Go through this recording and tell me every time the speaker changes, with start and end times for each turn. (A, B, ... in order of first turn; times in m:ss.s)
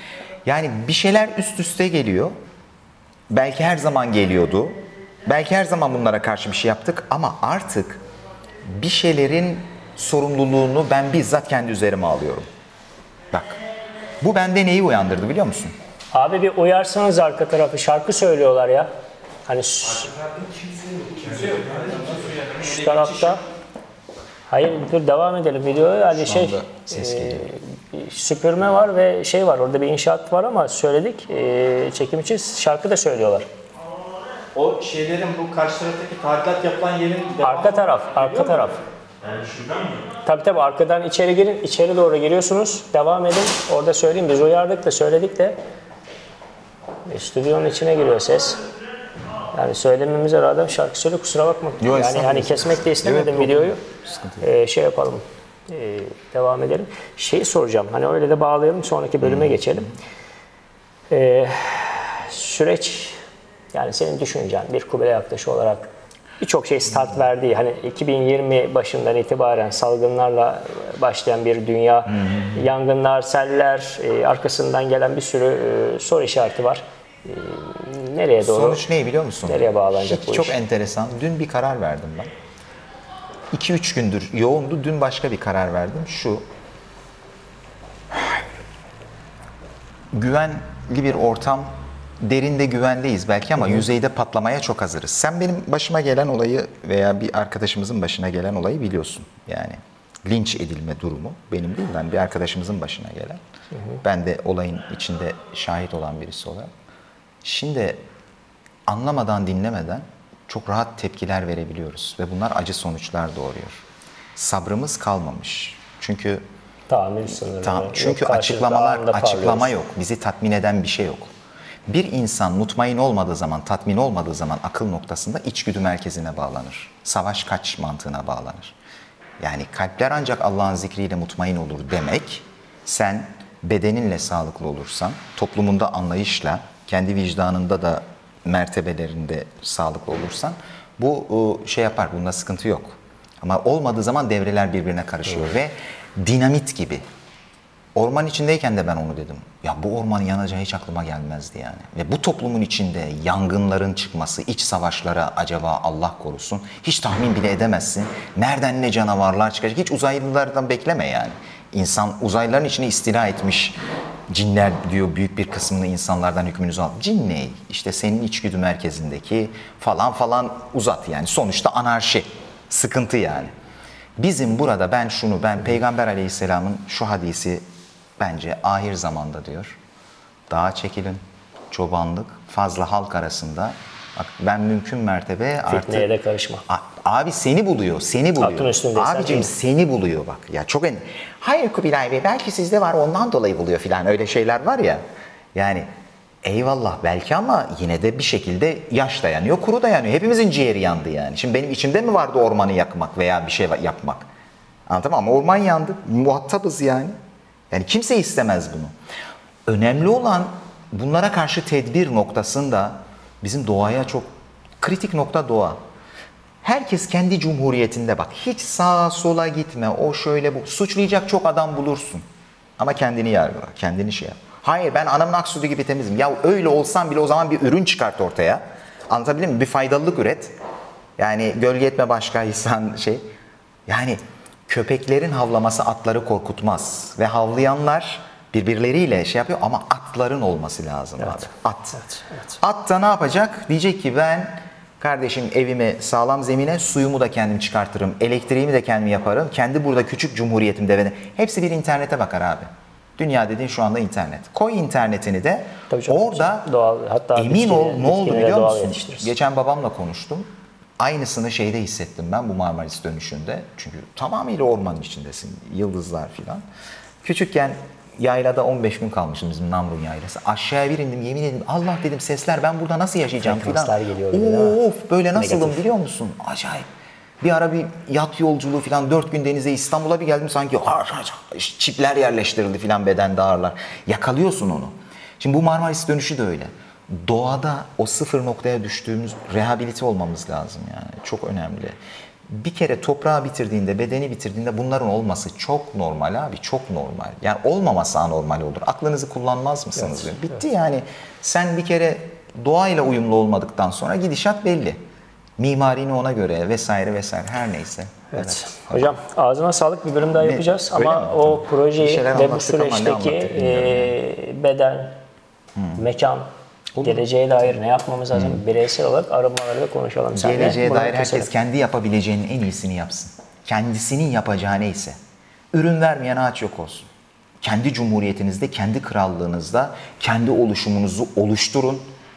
0:00.4-0:02.3 A
0:03.3-0:08.0 A
0:08.8-0:12.5 A
0:13.3-0:13.6 A
0:14.2-0:15.7 A
0:16.1-0:18.9 B
0:19.5-0:20.1 B
0:20.9-0:22.4 C
0:22.0-0:23.4 B
0:24.5-0:33.5 B
0:26.1-0:27.5 A
0:34.5-0:37.4 C
0:37.4-0:38.8 B
0:40.2-0:45.6 B
0:47.1-0:48.6 B
0:49.5-0:53.8 B
0:51.8-0:54.4 A
0:54.4-0:59.9 B
0:59.3-0:59.5 A
1:01.1-1:03.2 B
1:03.7-1:05.9 B
1:06.4-1:18.8 B
1:12.1-1:12.6 A
1:18.4-1:22.3 A
1:19.4-1:20.6 B
1:23.5-1:26.4 A
1:30.1-1:31.7 A
1:32.2-1:43.4 A
1:44.0-1:46.7 A
1:47.4-1:48.0 A
1:48.9-1:53.8 A
1:54.4-1:56.4 A
1:56.9-1:59.7 B
1:57.5-2:01.3 A
2:01.9-2:08.7 A
2:09.4-2:27.0 A
2:27.9-2:43.8 A
2:44.3-2:53.5 A
2:54.2-2:57.6 A
2:58.2-2:59.8 A
3:00.5-3:06.1 A
3:05.6-3:06.6 B
3:06.7-3:15.0 A
3:08.4-3:09.5 B
3:15.5-3:15.9 A
3:16.4-3:24.3 A
3:24.9-3:27.1 A
3:27.7-3:28.9 A
3:29.7-3:34.3 A
3:34.8-3:35.8 A
3:36.6-3:42.2 A
3:42.8-3:50.5 A
3:51.2-3:53.2 A
3:53.9-4:02.0 A
4:01.2-4:01.5 B
4:02.0-4:02.4 B
4:02.6-4:16.7 A
4:15.9-4:19.3 B
4:17.4-4:20.5 A
4:21.0-4:26.6 A
4:27.2-4:36.9 A
4:33.4-4:34.8 B
4:35.3-4:35.8 B
4:37.4-4:52.0 A
4:52.5-5:05.0 A
5:00.0-5:00.4 B
5:05.6-5:09.1 A
5:08.3-5:15.2 B
5:10.4-5:14.1 A
5:15.8-5:16.0 A
5:16.0-5:16.5 B
5:16.9-5:17.2 A
5:17.0-5:21.5 B
5:18.3-5:18.6 A
5:20.3-5:25.2 A
5:25.7-5:27.1 A
5:27.6-5:32.0 A